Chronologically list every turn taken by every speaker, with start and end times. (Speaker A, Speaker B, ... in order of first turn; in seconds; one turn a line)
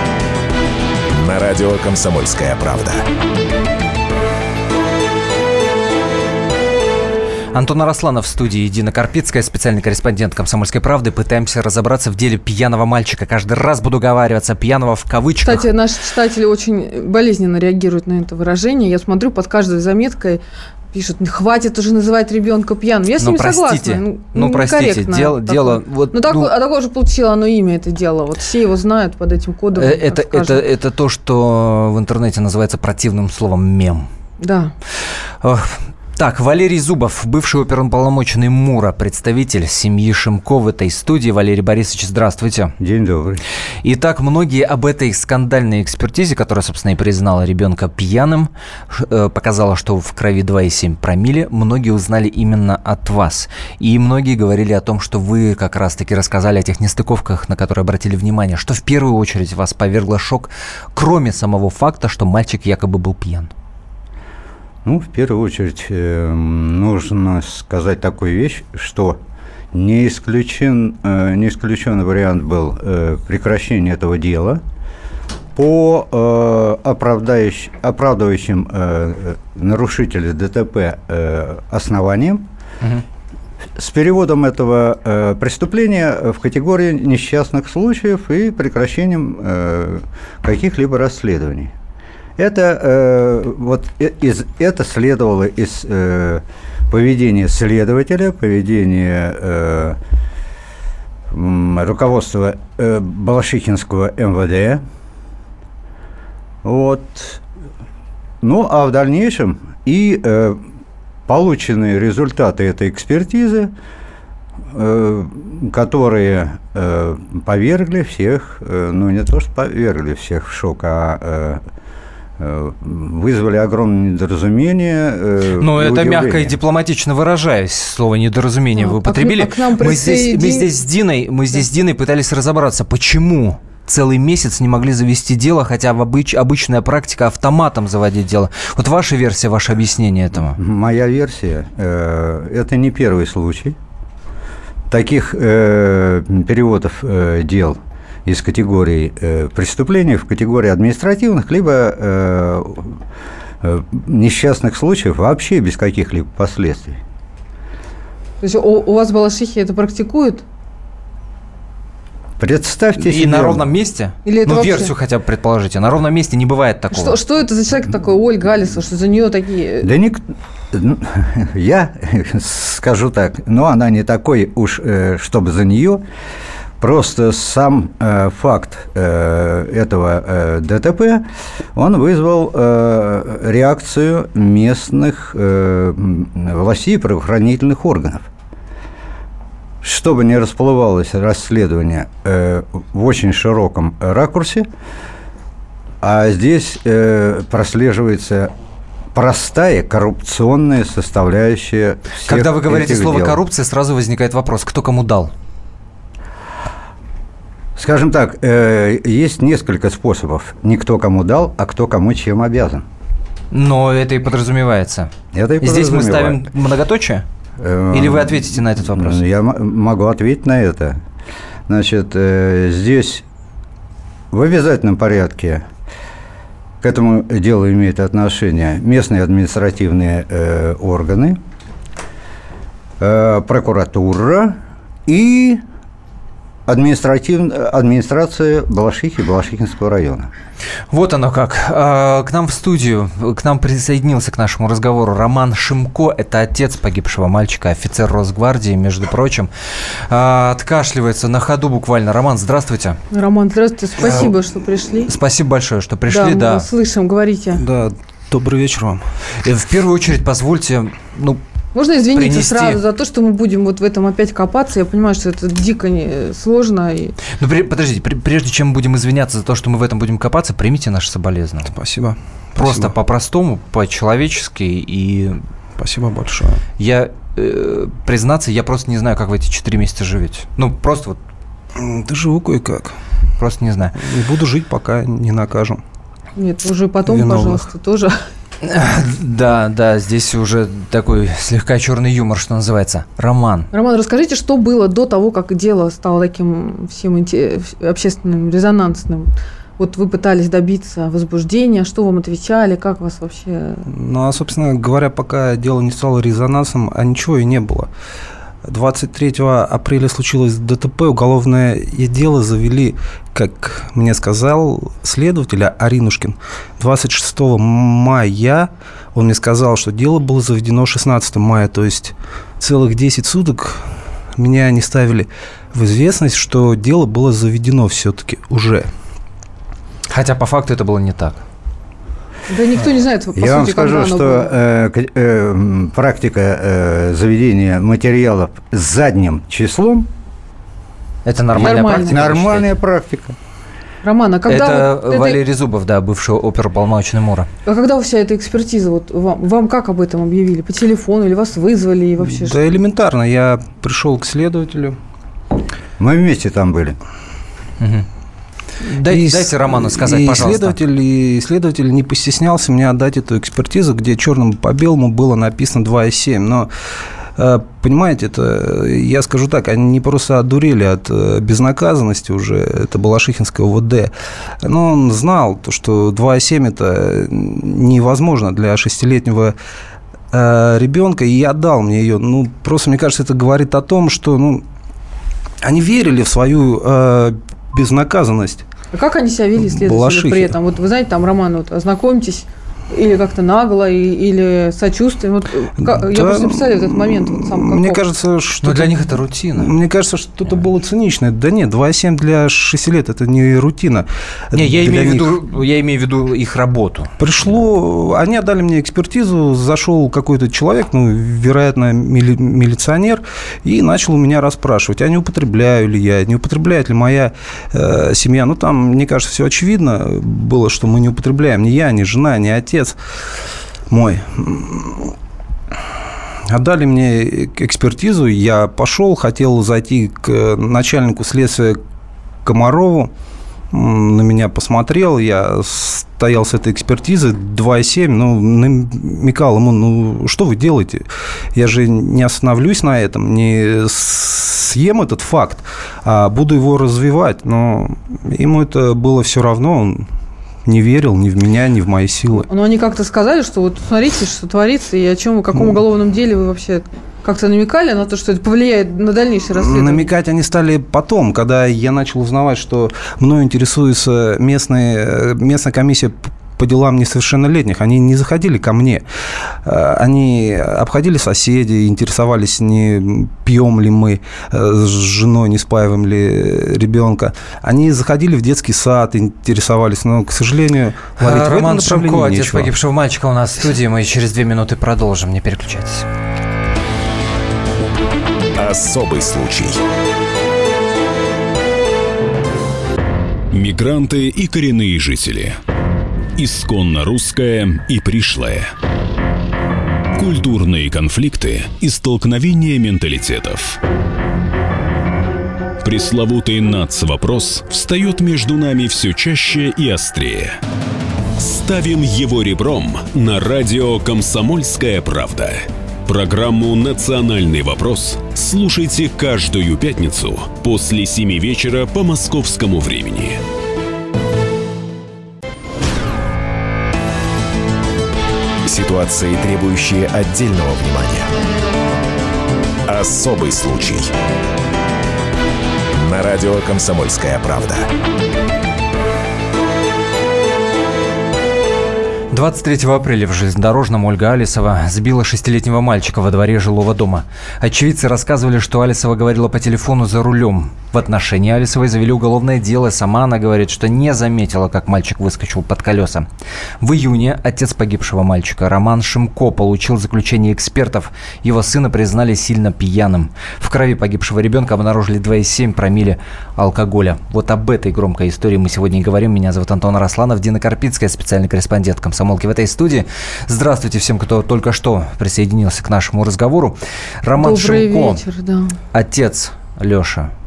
Speaker A: 1.1-3.0
Speaker B: 7.5-15.7
Speaker C: 15.4-20.4
Speaker C: 20.9-30.6
Speaker B: 23.2-26.5
Speaker B: 29.8-34.1
Speaker C: 34.4-34.7
Speaker B: 35.4-42.7
Speaker D: 42.8-43.4
Speaker B: 43.8-63.5
Speaker D: 64.8-69.2
Speaker D: 69.7-74.6
Speaker D: 75.5-82.4
Speaker D: 83.8-91.7
Speaker D: 92.4-100.0
Speaker D: 101.3-104.8
Speaker D: 106.6-107.4
Speaker D: 108.4-110.6
Speaker D: 111.3-113.7
Speaker D: 114.7-121.6
Speaker D: 122.4-126.5
Speaker B: 125.6-140.6
Speaker C: 128.8-130.7
Speaker D: 140.6-143.8
Speaker D: 144.9-153.0
Speaker D: 153.6-157.0
Speaker C: 158.4-160.4
Speaker D: 162.4-163.7
Speaker B: 163.0-167.2
Speaker C: 164.2-164.9
Speaker C: 166.9-169.9
Speaker D: 169.8-176.0
Speaker D: 176.8-181.2
Speaker D: 181.7-188.2
Speaker D: 189.8-194.7
Speaker D: 196.0-198.5
Speaker D: 199.1-203.4
Speaker B: 202.2-205.3
Speaker D: 207.8-212.8
Speaker B: 213.5-217.2
Speaker D: 215.3-216.5
Speaker D: 217.6-221.0
Speaker B: 217.9-219.2
Speaker D: 221.7-223.2
Speaker D: 224.3-225.7
Speaker D: 226.8-231.4
Speaker D: 233.0-235.6
Speaker D: 236.7-240.3
Speaker B: 240.9-249.5
Speaker B: 250.1-253.0
Speaker C: 253.1-255.1
Speaker B: 254.0-254.3
Speaker E: 254.0-254.3
Speaker B: 255.1-256.6
Speaker C: 256.1-257.6
Speaker E: 257.6-259.0
Speaker B: 259.4-261.4
Speaker C: 261.7-267.1
Speaker B: 262.1-262.8
Speaker B: 267.3-271.7
Speaker E: 271.7-272.9
Speaker B: 272.6-275.4
Speaker E: 275.8-276.6
Speaker B: 276.8-281.2
Speaker E: 281.8-283.0
Speaker B: 283.4-283.9
Speaker E: 284.0-285.8
Speaker C: 286.4-288.2
Speaker E: 287.1-287.6
Speaker B: 288.6-293.7
Speaker C: 293.7-303.8
Speaker E: 303.9-307.9
Speaker E: 308.6-323.8
Speaker E: 324.4-328.9
Speaker B: 330.1-331.4
Speaker C: 332.5-334.5
Speaker D: 333.3-340.1
Speaker B: 341.2-342.8
Speaker D: 341.5-343.3
Speaker C: 341.6-342.3
Speaker C: 344.0-345.4
Speaker B: 344.5-347.5
Speaker C: 347.6-352.6
Speaker E: 352.2-355.0
Speaker D: 356.0-357.0
Speaker B: 357.8-358.1
Speaker B: 358.8-360.8
Speaker E: 359.1-366.7
Speaker E: 367.4-374.1
Speaker E: 374.6-379.5
Speaker E: 380.3-384.6
Speaker E: 385.6-388.6
Speaker C: 388.9-398.0
Speaker E: 389.6-390.5
Speaker E: 395.8-398.9
Speaker B: 398.6-399.7
Speaker E: 399.6-405.3
Speaker B: 404.5-407.1
Speaker E: 407.2-422.9
Speaker E: 423.9-425.1
Speaker E: 426.5-431.8
Speaker E: 432.4-433.1
Speaker E: 433.7-450.1
Speaker E: 450.6-452.5
Speaker C: 452.5-460.1
Speaker E: 459.5-469.0
Speaker E: 469.6-482.7
Speaker B: 481.2-486.1
Speaker A: 488.6-489.8
Speaker F: 493.5-495.6
Speaker F: 496.4-498.7
Speaker F: 500.1-503.8
Speaker F: 505.8-510.6
Speaker F: 511.4-523.4
Speaker A: 528.6-531.3
Speaker A: 532.9-534.1
Speaker A: 535.9-537.9
Speaker B: 542.3-556.3
Speaker B: 556.8-578.2
Speaker C: 577.4-578.8
Speaker B: 578.9-580.3